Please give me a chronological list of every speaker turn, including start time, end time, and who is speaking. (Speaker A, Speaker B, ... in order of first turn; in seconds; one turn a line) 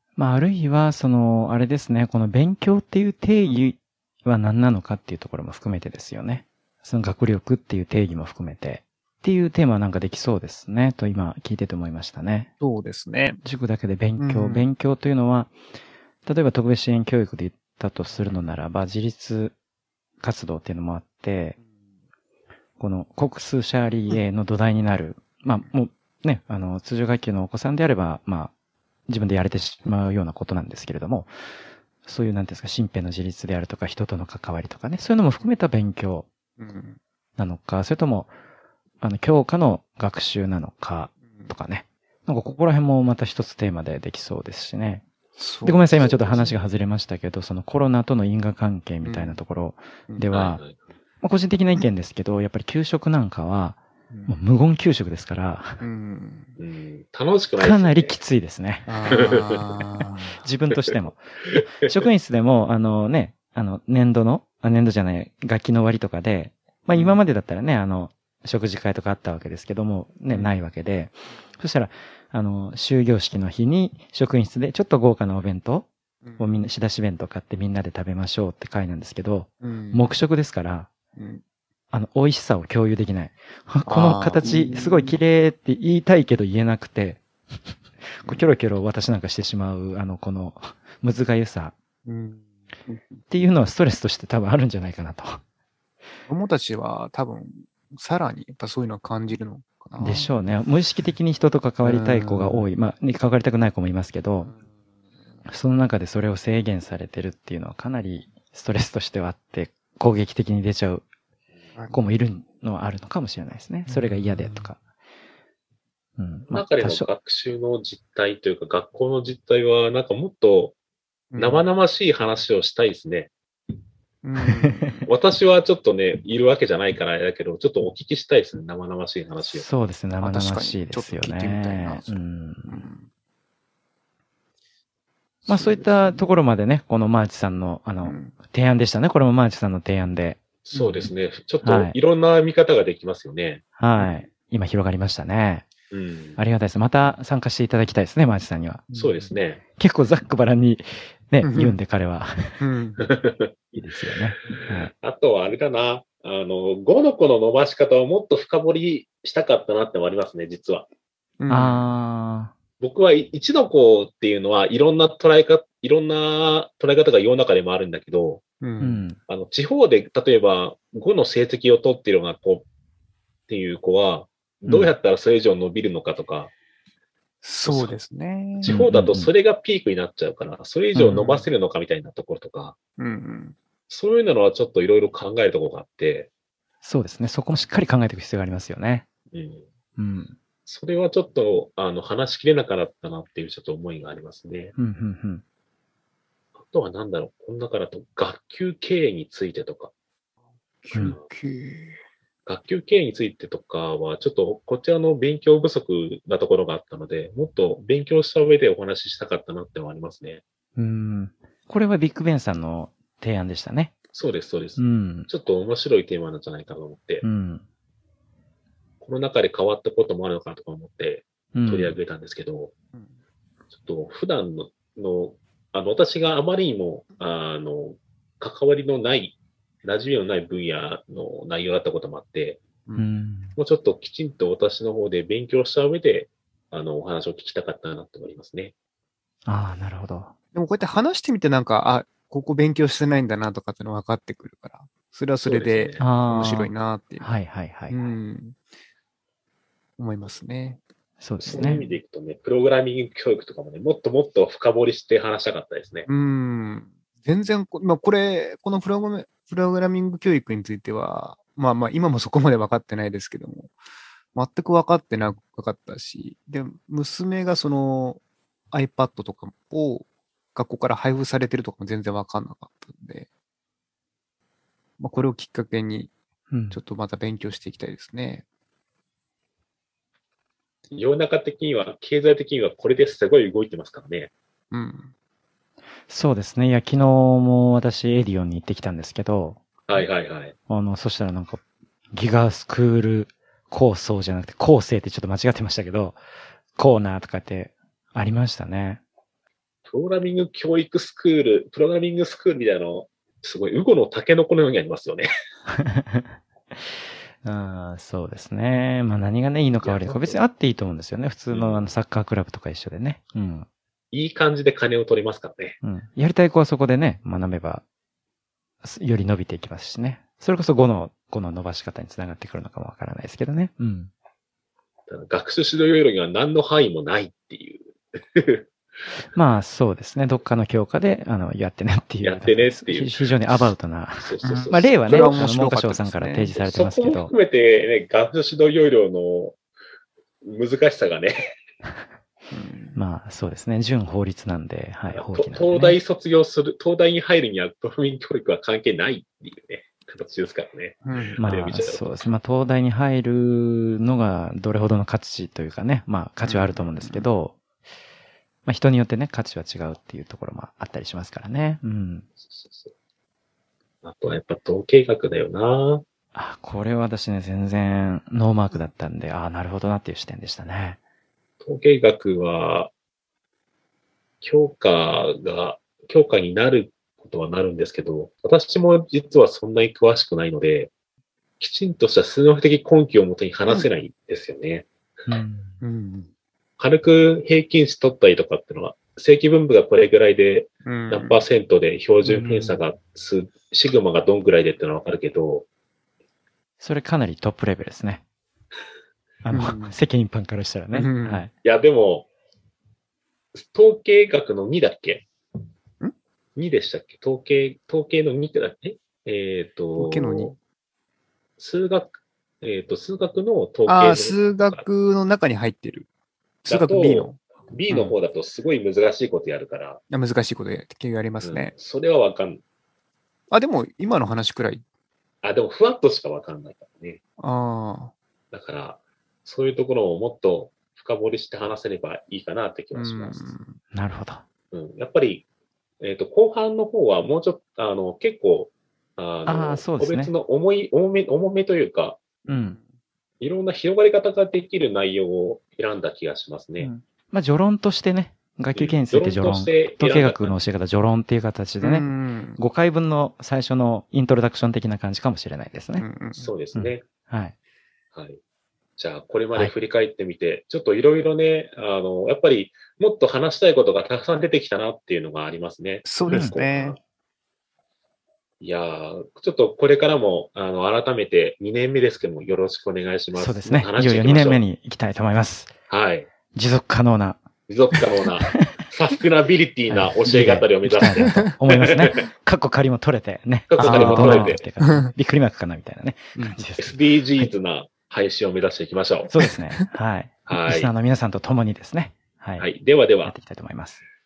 Speaker A: 0.2-12.5
Speaker B: 12.6-13.4
Speaker A: 13.4-15.5
Speaker B: 14.2-14.7
Speaker A: 16.3-19.5
Speaker A: 20.2-21.6
Speaker A: 22.8-28.5
Speaker A: 29.1-31.3
Speaker A: 32.0-36.3
Speaker B: 36.6-37.0
Speaker A: 37.4-38.3
Speaker A: 39.0-45.0
Speaker B: 45.4-46.6
Speaker A: 45.6-50.6
Speaker B: 49.0-49.4
Speaker C: 50.3-50.8
Speaker A: 51.2-55.8
Speaker B: 54.1-54.4
Speaker B: 55.8-56.6
Speaker C: 56.6-58.2
Speaker A: 57.6-59.5
Speaker B: 58.9-60.4
Speaker C: 59.1-59.6
Speaker A: 60.4-80.9
Speaker C: 61.5-62.0
Speaker B: 66.9-67.2
Speaker B: 76.2-76.7
Speaker B: 79.6-80.2
Speaker B: 81.2-81.4
Speaker A: 81.9-87.2
Speaker B: 83.9-85.2
Speaker A: 88.0-91.8
Speaker B: 92.0-93.2
Speaker A: 93.3-95.4
Speaker B: 96.3-100.3
Speaker A: 100.0-104.5
Speaker B: 101.8-102.7
Speaker A: 105.5-111.0
Speaker B: 111.8-112.0
Speaker A: 111.9-114.8
Speaker B: 113.9-114.7
Speaker A: 116.2-117.1
Speaker C: 116.5-120.8
Speaker B: 121.3-121.7
Speaker C: 121.4-123.3
Speaker B: 124.2-125.1
Speaker A: 124.4-125.0
Speaker C: 125.1-129.7
Speaker A: 129.5-132.9
Speaker B: 130.2-133.1
Speaker B: 135.5-136.3
Speaker A: 135.5-140.4
Speaker B: 138.0-138.4
Speaker C: 140.7-143.6
Speaker B: 140.7-141.1
Speaker A: 141.6-142.0
Speaker A: 143.8-145.7
Speaker B: 144.0-144.3
Speaker C: 145.9-146.4
Speaker A: 146.4-148.9
Speaker B: 148.9-149.2
Speaker C: 148.9-149.6
Speaker A: 149.7-152.6
Speaker B: 151.4-151.8
Speaker B: 152.6-153.0
Speaker C: 153.0-153.7
Speaker A: 153.7-154.9
Speaker C: 154.6-160.9
Speaker B: 161.4-161.8
Speaker A: 161.5-162.5
Speaker C: 162.8-168.4
Speaker B: 168.6-169.1
Speaker A: 168.8-169.2
Speaker C: 169.3-172.7
Speaker C: 173.5-176.5
Speaker A: 174.7-174.9
Speaker B: 177.4-178.8
Speaker C: 177.6-178.0
Speaker C: 178.6-182.8
Speaker A: 178.6-179.3
Speaker B: 181.0-181.5
Speaker B: 183.0-183.6
Speaker C: 183.9-186.3
Speaker A: 186.8-189.1
Speaker C: 189.3-189.7
Speaker A: 190.0-190.4
Speaker C: 190.7-194.7
Speaker A: 194.8-195.4
Speaker C: 196.6-199.9
Speaker B: 200.8-202.0
Speaker C: 202.5-210.4
Speaker A: 210.8-213.9
Speaker C: 214.1-217.2
Speaker A: 214.8-215.3
Speaker A: 217.2-217.6
Speaker C: 219.0-222.7
Speaker A: 221.5-222.0
Speaker C: 223.7-232.6
Speaker A: 233.0-233.6
Speaker C: 233.6-238.7
Speaker A: 239.5-240.3
Speaker B: 240.5-247.3
Speaker C: 245.4-246.1
Speaker A: 246.0-248.1
Speaker B: 247.9-248.6
Speaker B: 250.0-250.8
Speaker A: 251.2-251.8
Speaker C: 251.4-256.1
Speaker B: 251.4-252.0
Speaker B: 256.1-263.7
Speaker B: 264.4-273.3
Speaker B: 275.0-276.1
Speaker A: 276.5-276.8
Speaker B: 276.7-278.4
Speaker C: 280.9-284.3
Speaker B: 284.7-285.1
Speaker A: 286.1-289.6
Speaker C: 289.9-290.5
Speaker A: 290.7-291.6
Speaker A: 292.1-296.2
Speaker A: 296.8-299.0
Speaker C: 299.9-305.3
Speaker A: 305.7-306.8
Speaker A: 307.4-313.7
Speaker C: 309.8-310.4
Speaker C: 311.5-311.9
Speaker C: 314.1-315.8
Speaker A: 315.8-317.8
Speaker A: 318.8-324.1
Speaker C: 325.1-328.7
Speaker A: 329.3-337.3
Speaker C: 332.2-335.4
Speaker B: 335.1-336.5
Speaker C: 336.6-339.6
Speaker C: 340.4-341.5
Speaker B: 342.5-343.0
Speaker A: 342.9-346.0
Speaker C: 345.1-352.0
Speaker B: 351.0-351.4
Speaker A: 351.4-357.6
Speaker B: 356.4-357.3
Speaker A: 358.7-362.3
Speaker C: 362.4-362.9
Speaker C: 364.0-366.0
Speaker A: 366.3-371.0
Speaker C: 371.6-372.9
Speaker C: 374.4-380.9
Speaker C: 381.6-384.9
Speaker A: 385.3-385.8
Speaker B: 385.8-386.3
Speaker C: 386.8-395.7
Speaker B: 390.9-391.4
Speaker B: 392.2-392.8
Speaker A: 396.8-398.2
Speaker A: 399.4-401.5
Speaker B: 399.5-400.0
Speaker B: 400.9-401.4
Speaker C: 401.6-402.3
Speaker C: 403.6-405.3
Speaker C: 406.6-410.6
Speaker B: 410.0-410.5
Speaker C: 411.6-414.8
Speaker B: 413.9-416.1
Speaker B: 416.6-417.4
Speaker C: 416.7-420.0
Speaker B: 417.9-418.2
Speaker B: 420.1-421.7
Speaker C: 421.4-422.6
Speaker B: 423.5-424.8
Speaker C: 425.4-427.2
Speaker B: 427.4-428.1
Speaker C: 428.5-433.6
Speaker B: 432.9-433.8
Speaker A: 433.9-434.4
Speaker C: 434.7-435.4
Speaker C: 436.0-442.2
Speaker A: 439.5-440.3
Speaker B: 442.4-442.8
Speaker A: 442.5-442.8
Speaker C: 443.4-446.9
Speaker A: 446.8-456.1
Speaker C: 448.8-450.6
Speaker B: 451.8-452.6
Speaker B: 456.0-456.5
Speaker C: 456.4-457.0
Speaker A: 456.8-457.5
Speaker C: 458.1-458.4
Speaker C: 459.0-467.0
Speaker B: 466.1-467.0
Speaker A: 466.3-466.6
Speaker C: 468.6-474.6
Speaker A: 473.4-475.7
Speaker C: 475.9-476.3
Speaker A: 476.5-477.4
Speaker C: 477.7-482.2
Speaker A: 477.9-478.6
Speaker A: 479.9-487.5
Speaker C: 483.7-484.6
Speaker B: 483.8-485.1
Speaker C: 486.8-489.3
Speaker A: 489.3-492.7
Speaker B: 489.4-489.8
Speaker C: 490.5-490.9
Speaker C: 492.6-493.3
Speaker A: 493.2-494.0